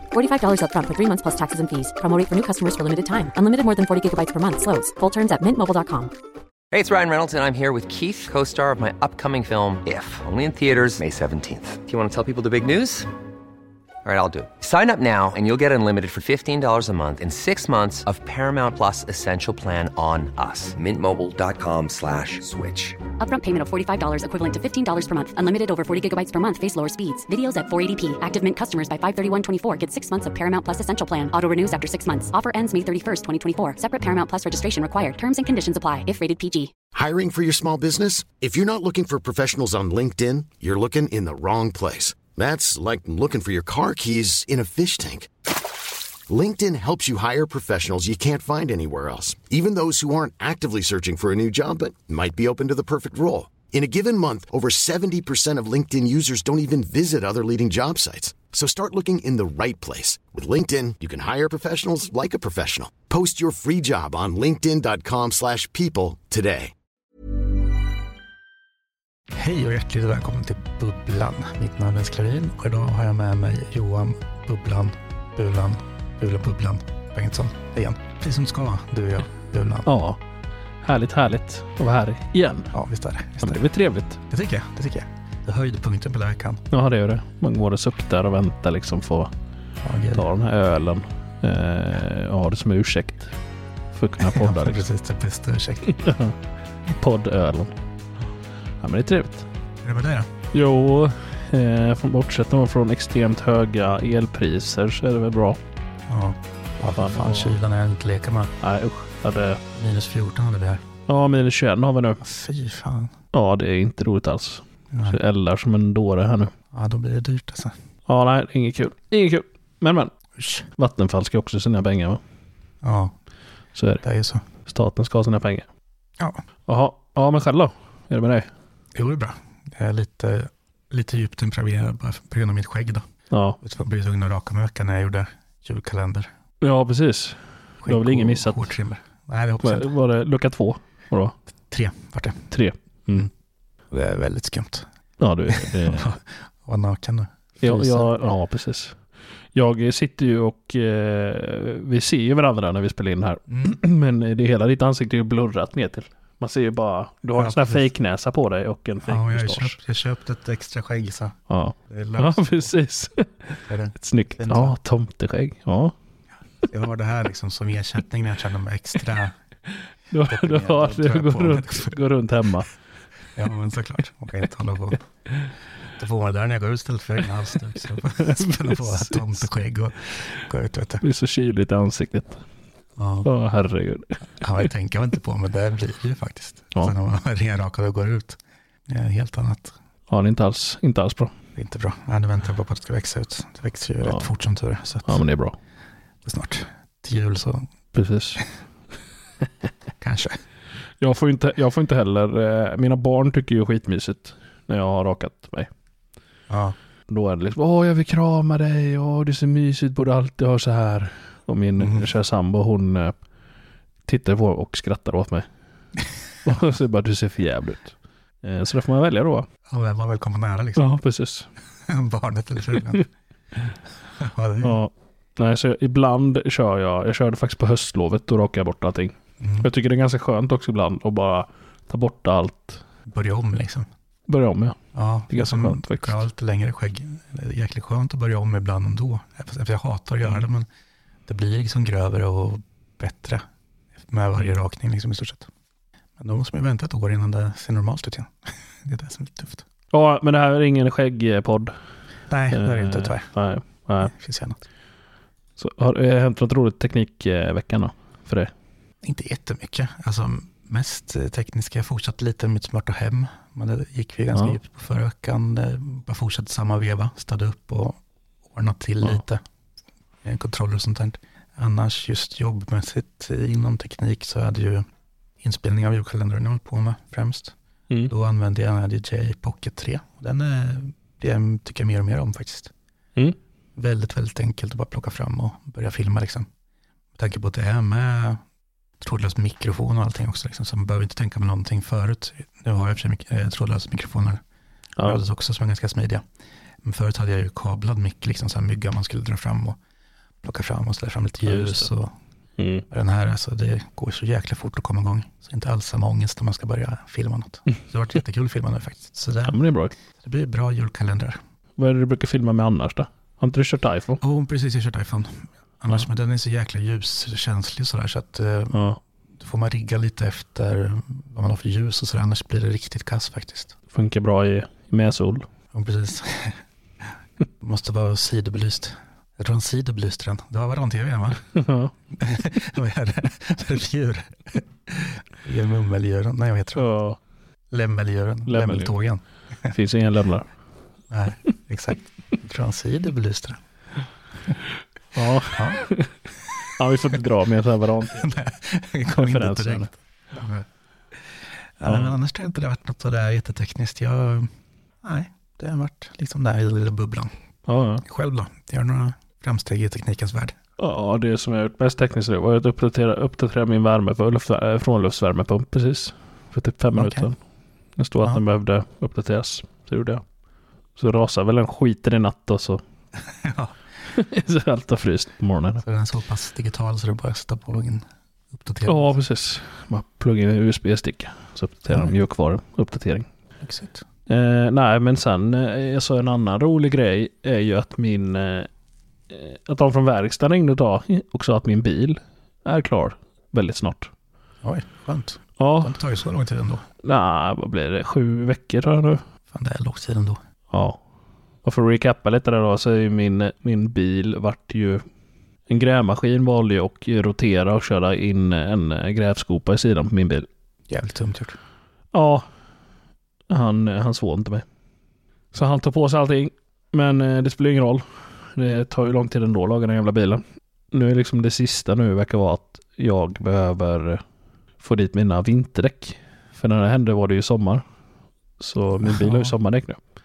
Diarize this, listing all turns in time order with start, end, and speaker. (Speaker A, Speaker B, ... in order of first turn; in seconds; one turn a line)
Speaker A: 0.1-6.1
Speaker B: 6.7-13.1
Speaker B: 14.0-23.0
Speaker A: 23.2-36.7
Speaker C: 36.9-45.3
Speaker C: 46.3-66.7
Speaker D: 69.3-79.9
Speaker E: 79.8-80.2
Speaker E: 80.8-82.7
Speaker D: 82.7-83.6
Speaker E: 83.4-84.2
Speaker D: 84.3-86.6
Speaker E: 86.7-89.3
Speaker D: 89.8-90.3
Speaker E: 90.1-93.3
Speaker E: 93.9-94.8
Speaker D: 94.2-96.0
Speaker E: 95.9-96.3
Speaker E: 96.9-97.7
Speaker E: 98.8-99.5
Speaker D: 99.8-100.3
Speaker E: 100.5-105.6
Speaker D: 106.1-108.5
Speaker E: 107.0-107.5
Speaker E: 108.6-109.6
Speaker D: 109.7-110.8
Speaker E: 111.1-112.2
Speaker D: 112.2-113.2
Speaker E: 113.3-116.5
Speaker D: 114.9-115.2
Speaker D: 116.7-117.7
Speaker E: 118.1-120.1
Speaker D: 120.4-120.7
Speaker E: 120.8-122.2
Speaker D: 122.8-123.1
Speaker E: 123.8-124.0
Speaker D: 124.0-124.4
Speaker E: 124.7-125.7
Speaker E: 126.7-128.5
Speaker D: 128.9-133.0
Speaker E: 133.3-133.6
Speaker D: 133.6-136.3
Speaker E: 136.6-138.7
Speaker D: 137.8-139.9
Speaker E: 139.6-141.3
Speaker D: 141.7-142.5
Speaker E: 142.5-143.3
Speaker D: 143.9-144.9
Speaker E: 145.2-146.1
Speaker D: 145.5-148.1
Speaker E: 147.6-149.0
Speaker E: 149.5-159.8
Speaker D: 153.5-153.8
Speaker D: 157.3-157.8
Speaker D: 159.0-161.4
Speaker E: 161.5-165.9
Speaker D: 161.9-162.7
Speaker D: 163.7-164.8
Speaker D: 166.6-169.3
Speaker E: 170.1-172.7
Speaker D: 170.2-172.0
Speaker D: 173.3-175.0
Speaker D: 176.0-181.0
Speaker E: 178.1-179.3
Speaker E: 181.0-182.4
Speaker D: 183.0-183.3
Speaker E: 183.2-184.2
Speaker D: 184.4-189.7
Speaker E: 190.1-191.3
Speaker D: 191.6-195.2
Speaker E: 195.1-195.6
Speaker D: 196.2-197.7
Speaker E: 197.9-198.4
Speaker D: 200.0-200.4
Speaker E: 201.0-205.7
Speaker D: 206.5-206.8
Speaker E: 207.1-213.1
Speaker D: 211.8-212.1
Speaker E: 214.1-215.4
Speaker E: 216.4-219.5
Speaker D: 219.7-220.8
Speaker E: 220.8-221.5
Speaker D: 221.9-223.1
Speaker D: 224.2-224.8
Speaker E: 224.6-232.8
Speaker D: 229.4-229.7
Speaker D: 233.1-233.9
Speaker E: 234.3-234.8
Speaker D: 234.9-240.7
Speaker E: 235.3-236.2
Speaker D: 241.3-243.4
Speaker D: 244.1-245.5
Speaker D: 246.2-249.6
Speaker E: 249.9-251.7
Speaker D: 252.3-253.3
Speaker E: 252.5-254.1
Speaker D: 254.0-254.6
Speaker E: 255.6-258.5
Speaker D: 259.0-268.0
Speaker D: 268.5-269.4
Speaker D: 270.2-274.8
Speaker D: 275.4-277.5
Speaker D: 278.1-282.7
Speaker D: 283.8-286.5
Speaker D: 287.1-288.4
Speaker D: 289.0-294.4
Speaker D: 295.0-296.2
Speaker D: 296.8-299.8
Speaker D: 300.4-302.1
Speaker E: 301.4-301.9
Speaker E: 302.6-302.8
Speaker D: 302.9-309.6
Speaker E: 309.5-309.9
Speaker D: 310.2-311.4
Speaker E: 311.8-314.2
Speaker D: 314.2-318.8
Speaker E: 318.7-319.0
Speaker D: 319.4-323.7
Speaker E: 323.9-325.4
Speaker D: 325.7-326.6
Speaker D: 327.6-331.5
Speaker E: 331.5-331.9
Speaker D: 332.2-336.9
Speaker E: 336.8-337.2
Speaker D: 337.7-339.7
Speaker E: 338.5-338.9
Speaker E: 339.7-340.5
Speaker D: 341.1-343.6
Speaker E: 345.1-348.4
Speaker D: 345.5-345.8
Speaker D: 348.2-350.6
Speaker E: 349.1-349.9
Speaker D: 351.8-354.5
Speaker D: 355.0-357.3
Speaker E: 357.7-358.0
Speaker D: 358.0-360.6
Speaker E: 360.8-367.4
Speaker D: 366.9-367.3
Speaker E: 368.0-370.2
Speaker E: 371.0-372.8
Speaker D: 373.3-373.7
Speaker E: 374.1-375.8
Speaker D: 375.8-379.1
Speaker E: 378.9-383.3
Speaker D: 383.6-384.0
Speaker E: 384.3-388.7
Speaker E: 389.3-394.1
Speaker D: 394.6-396.9
Speaker E: 395.6-396.0
Speaker E: 397.0-399.2
Speaker D: 399.5-400.4
Speaker E: 400.7-401.0
Speaker E: 401.6-405.0
Speaker E: 405.7-410.5
Speaker D: 410.9-411.6
Speaker E: 412.1-412.4
Speaker E: 413.5-414.6
Speaker E: 415.5-424.2
Speaker E: 424.8-427.8
Speaker E: 428.6-430.0
Speaker D: 429.0-429.5